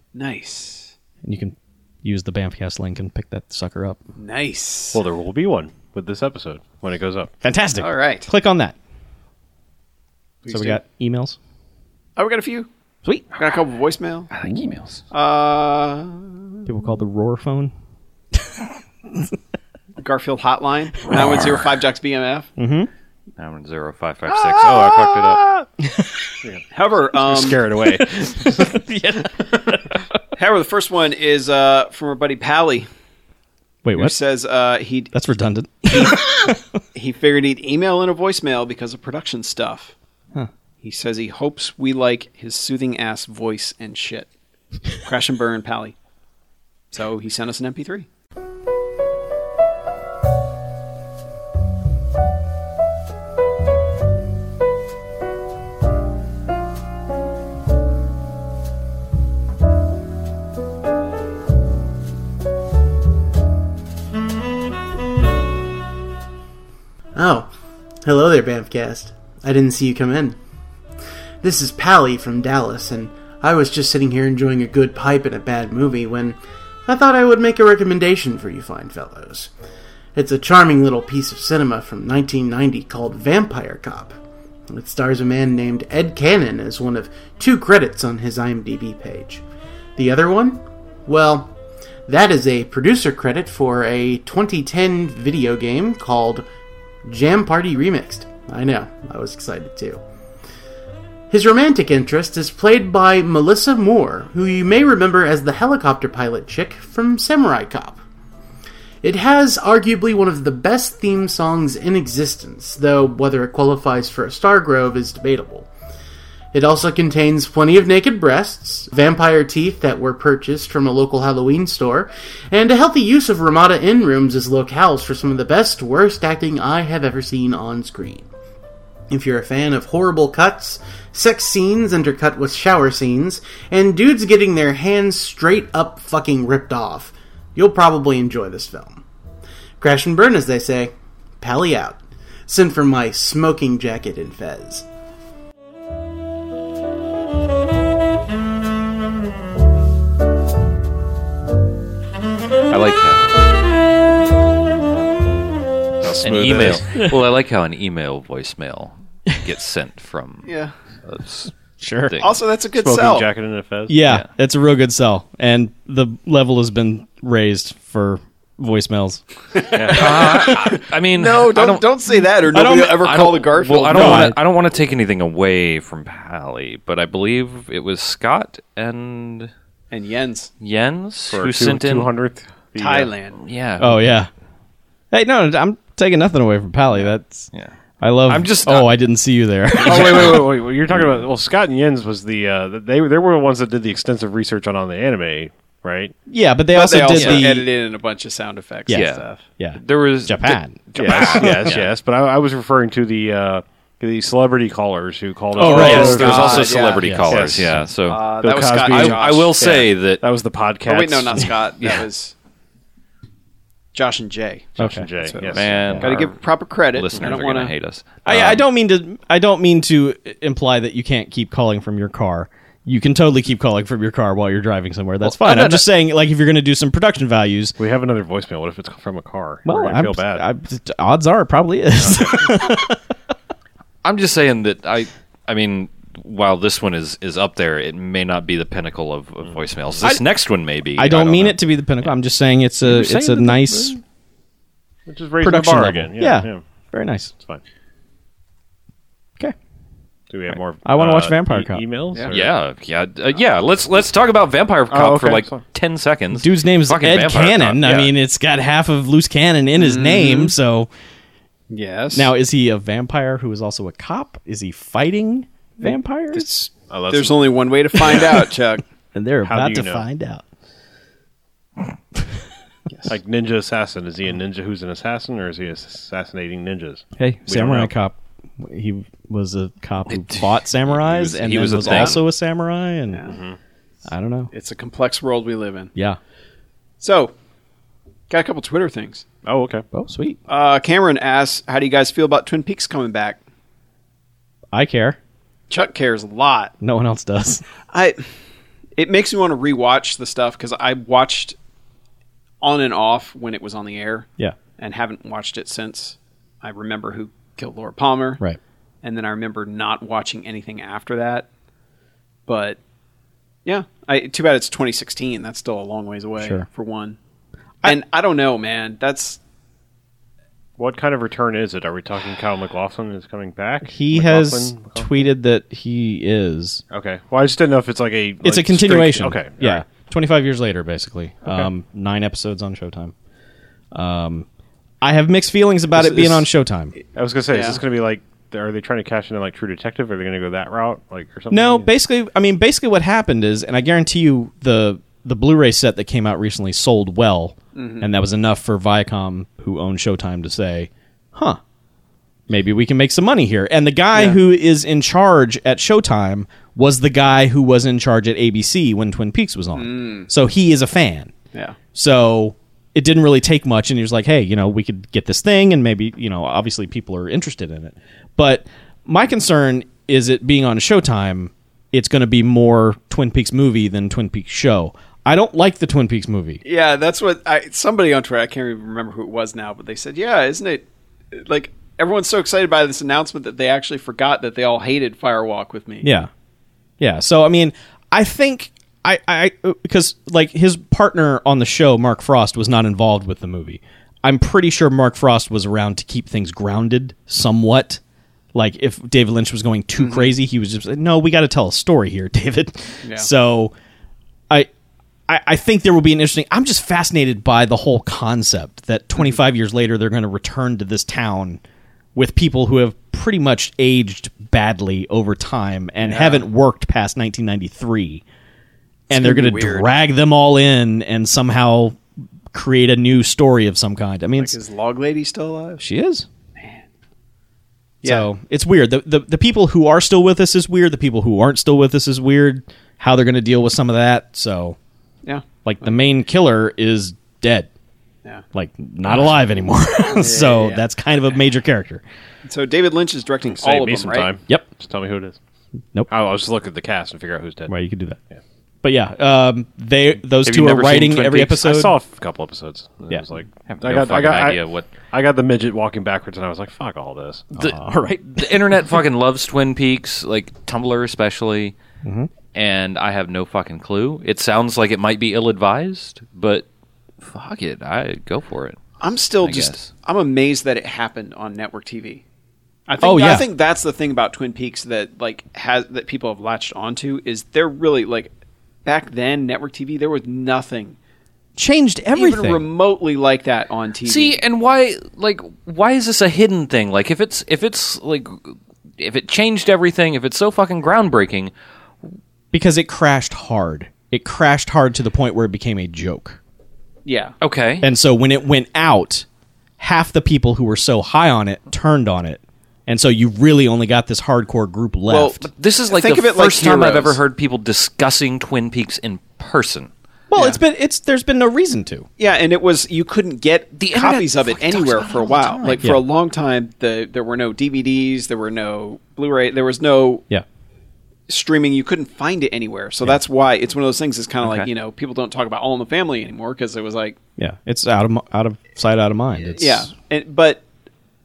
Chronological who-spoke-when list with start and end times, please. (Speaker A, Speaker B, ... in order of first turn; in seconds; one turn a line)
Speaker A: 0.1-0.9
Speaker B: 1.2-4.0
Speaker A: 4.2-5.0
Speaker C: 4.9-7.3
Speaker B: 7.4-8.8
Speaker A: 7.8-8.3
Speaker A: 10.4-10.8
Speaker B: 10.5-11.4
Speaker A: 12.2-12.7
Speaker A: 13.4-14.3
Speaker D: 14.3-15.0
Speaker A: 15.1-16.5
Speaker B: 16.6-17.7
Speaker A: 20.0-22.5
Speaker B: 22.6-22.9
Speaker D: 23.4-25.4
Speaker B: 24.3-26.4
Speaker C: 26.4-28.8
Speaker A: 26.7-27.6
Speaker B: 27.9-30.0
Speaker A: 30.4-32.9
Speaker B: 33.8-34.1
Speaker A: 34.0-35.1
Speaker B: 35.1-36.6
Speaker A: 35.9-36.4
Speaker A: 36.9-39.9
Speaker A: 40.8-44.3
Speaker A: 45.0-45.9
Speaker A: 46.9-48.1
Speaker E: 67.1-67.5
Speaker E: 68.0-70.4
Speaker E: 71.4-79.5
Speaker E: 80.1-84.2
Speaker E: 84.7-89.4
Speaker E: 90.0-91.5
Speaker E: 92.1-96.5
Speaker E: 97.0-100.0
Speaker E: 101.3-108.0
Speaker E: 109.0-115.7
Speaker E: 116.5-128.3
Speaker E: 129.1-139.0
Speaker E: 139.8-144.8
Speaker D: 152.7-153.4
Speaker C: 156.0-156.8
Speaker D: 156.2-160.5
Speaker A: 160.4-160.7
Speaker D: 161.0-161.5
Speaker B: 161.8-162.2
Speaker A: 162.2-163.3
Speaker C: 162.7-164.0
Speaker B: 163.9-169.2
Speaker A: 169.7-174.3
Speaker C: 169.7-170.2
Speaker D: 169.8-171.9
Speaker B: 172.5-173.0
Speaker D: 173.0-179.5
Speaker B: 173.9-174.4
Speaker A: 179.9-180.5
Speaker D: 180.6-182.1
Speaker C: 181.3-183.1
Speaker A: 182.8-183.4
Speaker D: 183.4-184.0
Speaker B: 183.8-184.3
Speaker B: 185.1-187.5
Speaker D: 187.0-187.7
Speaker B: 188.0-190.4
Speaker D: 188.3-188.9
Speaker C: 189.8-196.1
Speaker A: 189.9-190.3
Speaker B: 196.3-197.7
Speaker A: 196.7-199.4
Speaker D: 197.1-197.4
Speaker B: 198.9-201.7
Speaker D: 198.9-199.2
Speaker D: 199.8-201.9
Speaker C: 200.9-211.5
Speaker B: 205.6-206.2
Speaker A: 205.6-207.0
Speaker D: 205.6-208.2
Speaker B: 207.0-207.3
Speaker A: 208.1-209.7
Speaker D: 208.8-210.2
Speaker A: 210.8-212.3
Speaker A: 213.9-217.7
Speaker C: 214.8-216.3
Speaker B: 214.8-215.1
Speaker D: 215.5-216.3
Speaker D: 216.9-218.6
Speaker B: 218.2-227.8
Speaker A: 225.2-225.8
Speaker C: 227.8-230.4
Speaker B: 229.6-233.0
Speaker C: 232.1-232.4
Speaker D: 234.0-241.6
Speaker B: 240.9-244.0
Speaker C: 242.8-244.0
Speaker C: 245.1-246.6
Speaker B: 245.4-247.3
Speaker C: 250.3-252.6
Speaker B: 250.8-251.8
Speaker D: 252.3-258.1
Speaker C: 254.9-255.6
Speaker B: 256.3-260.9
Speaker A: 259.8-260.6
Speaker A: 261.7-262.3
Speaker B: 262.1-266.5
Speaker A: 265.8-268.8
Speaker C: 266.9-268.3
Speaker B: 269.1-270.4
Speaker C: 269.4-270.0
Speaker C: 273.1-277.9
Speaker B: 277.2-283.2
Speaker D: 280.1-282.2
Speaker A: 281.8-282.1
Speaker A: 283.1-283.4
Speaker C: 283.3-283.6
Speaker B: 284.1-284.5
Speaker A: 284.5-285.9
Speaker A: 287.0-287.3
Speaker A: 288.3-289.2
Speaker C: 289.4-289.8
Speaker B: 289.9-290.4
Speaker A: 290.5-293.4
Speaker B: 294.7-295.2
Speaker A: 295.7-296.7
Speaker B: 296.8-297.6
Speaker A: 297.9-298.3
Speaker A: 298.9-301.6
Speaker A: 302.6-308.4
Speaker A: 309.0-311.5
Speaker A: 312.5-312.8
Speaker A: 313.6-317.2
Speaker B: 316.4-316.6
Speaker A: 317.8-319.4
Speaker C: 320.8-325.2
Speaker B: 323.8-326.8
Speaker C: 326.9-329.8
Speaker B: 328.4-333.1
Speaker B: 333.9-334.4
Speaker B: 335.0-336.9
Speaker A: 336.0-336.3
Speaker A: 337.0-337.8
Speaker C: 337.1-341.9
Speaker B: 341.5-351.6
Speaker A: 347.7-348.1
Speaker B: 352.5-361.3
Speaker A: 354.1-354.4
Speaker A: 359.7-360.3
Speaker B: 361.9-376.6
Speaker A: 376.6-386.1
Speaker B: 386.0-386.3
Speaker B: 387.0-398.0
Speaker B: 398.5-403.7
Speaker A: 400.0-400.3
Speaker B: 405.3-411.6
Speaker B: 412.1-418.2
Speaker A: 416.0-416.4
Speaker B: 419.1-422.0
Speaker A: 419.1-419.9
Speaker B: 422.5-424.6
Speaker A: 424.4-425.8
Speaker B: 425.8-426.2
Speaker A: 426.6-426.8
Speaker B: 428.0-434.8
Speaker A: 435.2-435.9
Speaker B: 435.6-437.7
Speaker B: 438.5-442.0
Speaker A: 440.1-440.8
Speaker A: 442.4-444.3
Speaker C: 443.5-445.4
Speaker C: 446.1-447.7
Speaker B: 447.7-448.2
Speaker B: 448.8-451.9
Speaker C: 450.4-457.6
Speaker D: 450.6-451.0
Speaker D: 453.7-454.9
Speaker B: 457.5-458.6
Speaker D: 457.6-461.8
Speaker B: 462.0-462.3
Speaker D: 462.5-466.6
Speaker D: 467.2-469.9
Speaker A: 469.0-472.2
Speaker A: 472.9-478.3
Speaker B: 473.0-473.5
Speaker A: 478.8-480.9
Speaker B: 481.6-482.6
Speaker A: 482.1-484.4
Speaker D: 484.0-491.5
Speaker B: 492.5-496.4
Speaker A: 497.0-497.3
Speaker D: 497.4-497.8
Speaker B: 497.8-499.2
Speaker B: 499.8-505.4
Speaker A: 505.1-507.2
Speaker D: 505.5-509.9
Speaker B: 510.3-512.1
Speaker A: 510.3-510.6
Speaker A: 512.2-520.2
Speaker D: 513.8-515.9
Speaker A: 521.3-527.2
Speaker D: 524.4-524.7
Speaker B: 527.4-529.9
Speaker A: 529.5-530.6